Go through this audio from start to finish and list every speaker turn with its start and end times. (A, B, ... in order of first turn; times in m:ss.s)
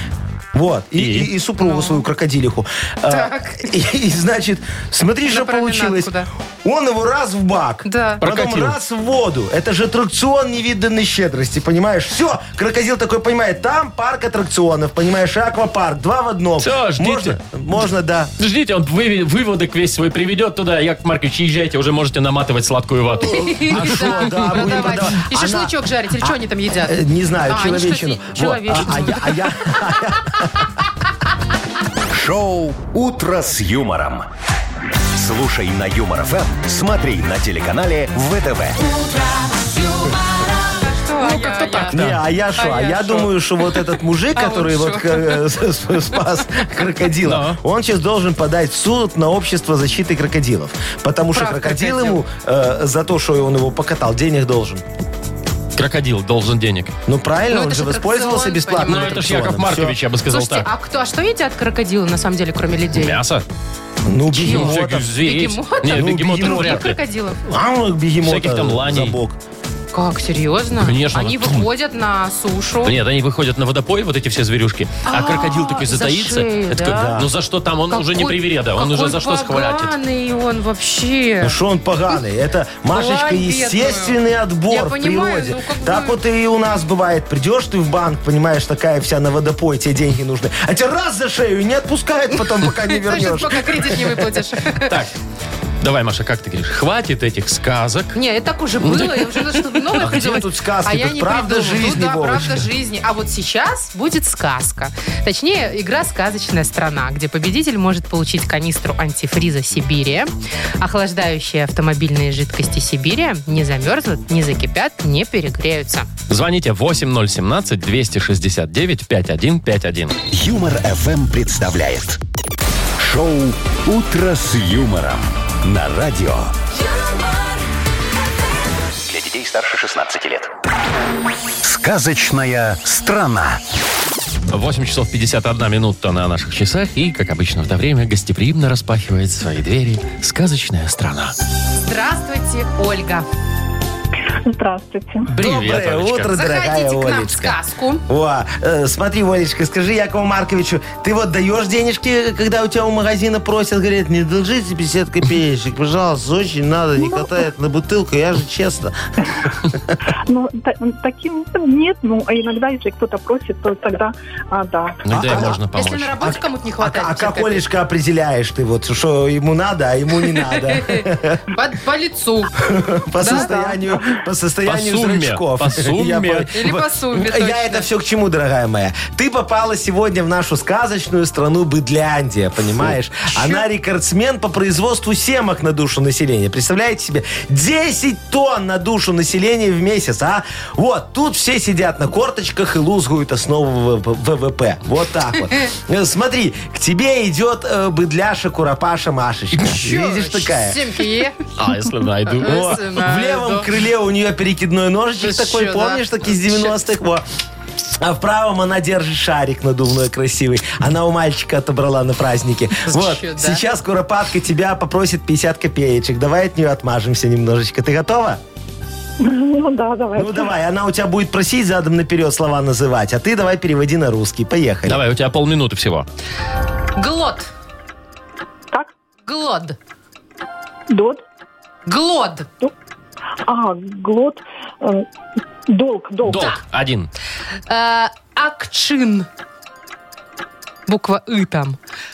0:00.5-0:06.1 A
0:01.0-0:01.3 B
0:01.6-0:02.0 C
0:03.1-0:03.7 C
0:05.3-0:06.3 C
0:06.6-0:18.3 A
0:07.8-0:08.2 C
0:08.2-0:08.8 B
0:16.6-0:17.4 B
0:18.4-0:24.7 B
0:23.2-0:30.0 C
0:23.5-0:30.7 A
0:32.1-0:34.3 D
0:35.1-0:38.8 D
0:38.8-0:40.2 E
0:40.7-0:42.0 C
0:41.2-0:42.2 B
0:41.9-0:54.8 A
0:42.6-0:43.3 C
0:44.4-0:45.4 C
0:47.2-0:47.6 B
0:51.3-0:52.2 C
0:55.8-0:56.9 B
0:57.1-1:00.0 A
0:57.5-0:59.3 C
0:58.8-1:00.7 B
1:00.3-1:03.2 C
1:02.9-1:03.4 B
1:04.0-1:05.1 A
1:04.3-1:07.4 C
1:04.4-1:07.0 B
1:05.9-1:06.9 A
1:07.5-1:09.4 A
1:08.2-1:09.2 B
1:09.9-1:13.0 C
1:10.8-1:11.7 B
1:12.8-1:20.0 B
1:15.0-1:17.2 C
1:16.9-1:17.3 A
1:17.9-1:21.6 C
1:21.4-1:34.4 A
1:22.9-1:26.2 C
1:32.9-1:34.9 C
1:34.8-1:35.1 B
1:35.8-1:38.1 B
1:38.1-1:56.1 C
1:38.8-1:39.8 B
1:40.0-1:42.7 A
1:56.3-2:00.2 B
2:00.3-2:02.2 D
2:03.0-2:06.5 D
2:09.0-2:10.5 E
2:11.6-2:13.6 D
2:14.5-2:21.3 B
2:21.8-2:23.2 C
2:24.4-2:25.3 F
2:25.3-2:26.3 B
2:25.4-2:39.9 A
2:26.3-2:28.0 C
2:37.0-2:37.4 F
2:40.3-2:45.0 F
2:45.0-2:46.2 B
2:45.1-2:45.6 A
2:45.3-2:47.6 C
2:46.2-2:51.4 A
2:50.2-2:52.5 C
2:52.6-3:20.8 A
2:53.2-2:53.8 C
2:54.6-2:56.5 B
2:56.5-2:57.9 C
3:03.3-3:03.6 C
3:19.7-3:21.4 C
3:21.6-3:22.8 B
3:22.3-3:23.7 C
3:22.4-3:27.2 A
3:25.2-3:26.7 C
3:28.0-3:38.4 A
3:32.8-3:33.6 C
3:39.2-3:40.5 F
3:40.2-3:45.0 A
3:44.8-3:46.0 B
3:47.0-3:47.5 C
3:49.2-3:49.8 C
3:50.9-3:51.2 F
3:51.8-3:52.5 C
3:53.5-3:55.1 F
3:55.7-3:56.6 F
3:56.2-3:57.1 B
3:57.7-3:59.3 C
4:00.9-4:01.8 C